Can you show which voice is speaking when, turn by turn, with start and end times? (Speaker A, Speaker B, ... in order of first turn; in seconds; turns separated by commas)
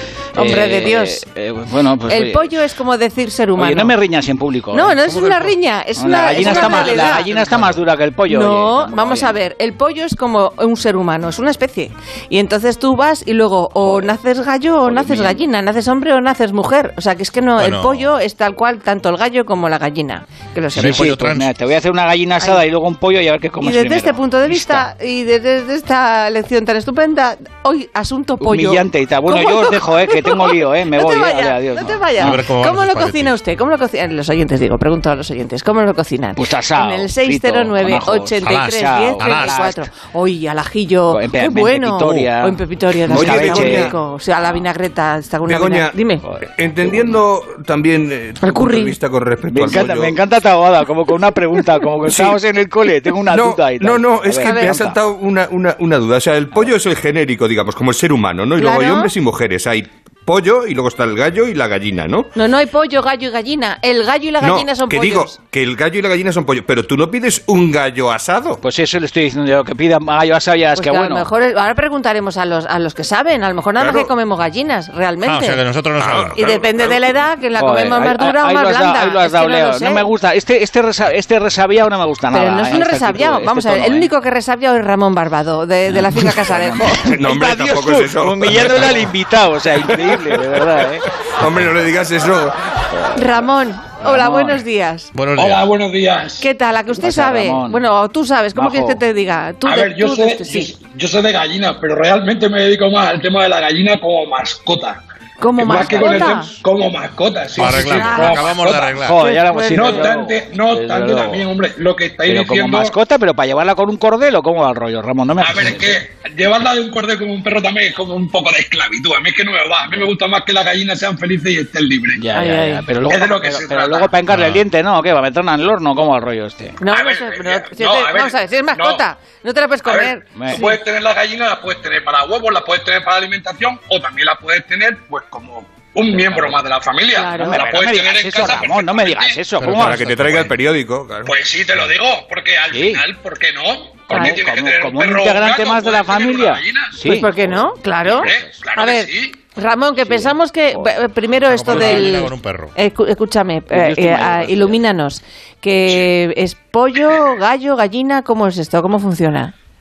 Speaker A: 0.3-1.2, Speaker B: 0.3-2.6, Speaker A: 2.1-3.9, Speaker B: 3.6-4.9, Speaker A: 4.7-7.3, Speaker C: 5.0-5.5, Speaker B: 6.0-9.3, Speaker C: 6.4-7.3, Speaker A: 8.3-21.2, Speaker B: 13.8-14.2, Speaker B: 14.8-15.4, Speaker C: 17.6-18.1, Speaker C: 20.7-21.5, Speaker B: 20.8-24.9, Speaker A: 23.6-46.2, Speaker B: 28.4-32.4, Speaker C: 32.2-33.4, Speaker B: 36.4-39.9, Speaker C: 38.4-39.6, Speaker B: 41.1-44.6, Speaker D: 43.0-43.9, Speaker D: 45.5-50.2, Speaker B: 46.2-47.2, Speaker A: 48.4-49.0, Speaker B: 49.5-55.0, Speaker D: 52.1-52.4, Speaker D: 53.3-62.3, Speaker A: 54.4-54.7, Speaker A: 58.6-59.1, Speaker A: 62.3-65.4, Speaker D: 64.4-68.6, Speaker B: 68.6-71.3, Speaker A: 70.8-75.6, Speaker D: 73.8-74.1, Speaker C: 75.2-76.3, Speaker D: 76.0-77.0, Speaker A: 76.3-80.1, Speaker B: 77.6-84.1, Speaker A: 82.3-87.1, Speaker B: 85.9-91.0, Speaker D: 87.0-89.1, Speaker D: 89.9-92.8, Speaker B: 92.9-93.2, Speaker A: 93.1-95.1, Speaker B: 94.0-94.6, Speaker C: 95.1-95.6, Speaker E: 95.3-96.5, Speaker A: 96.4-100.7, Speaker B: 97.0-97.8, Speaker B: 98.5-99.0, Speaker E: 99.7-105.0, Speaker A: 105.4-106.5, Speaker E: 105.6-109.0, Speaker B: 105.7-106.4, Speaker C: 107.5-109.2, Speaker A: 107.7-108.4, Speaker B: 107.8-108.4, Speaker B: 108.9-111.5, Speaker A: 109.2-110.1, Speaker E: 109.7-113.0, Speaker B: 112.2-116.0, Speaker E: 115.4-122.2, Speaker B: 122.1-126.8, Speaker A: 122.3-122.8, Speaker E: 123.1-124.1, Speaker C: 124.3-124.6, Speaker A: 126.8-130.8, Speaker E: 126.9-129.0, Speaker E: 129.8-139.4, Speaker B: 130.3-130.6, Speaker B: 136.1-136.6, Speaker A: 137.1-137.6, Speaker B: 137.3-140.5, Speaker C: 139.6-140.2, Speaker D: 139.7-141.3, Speaker E: 141.2-146.9, Speaker B: 142.7-143.0, Speaker B: 144.1-147.3, Speaker A: 147.0-159.5, Speaker B: 148.1-148.5, Speaker E: 148.1-149.4, Speaker B: 150.0-150.9, Speaker C: 151.4-152.7, Speaker B: 151.7-152.1, Speaker B: 153.7-154.8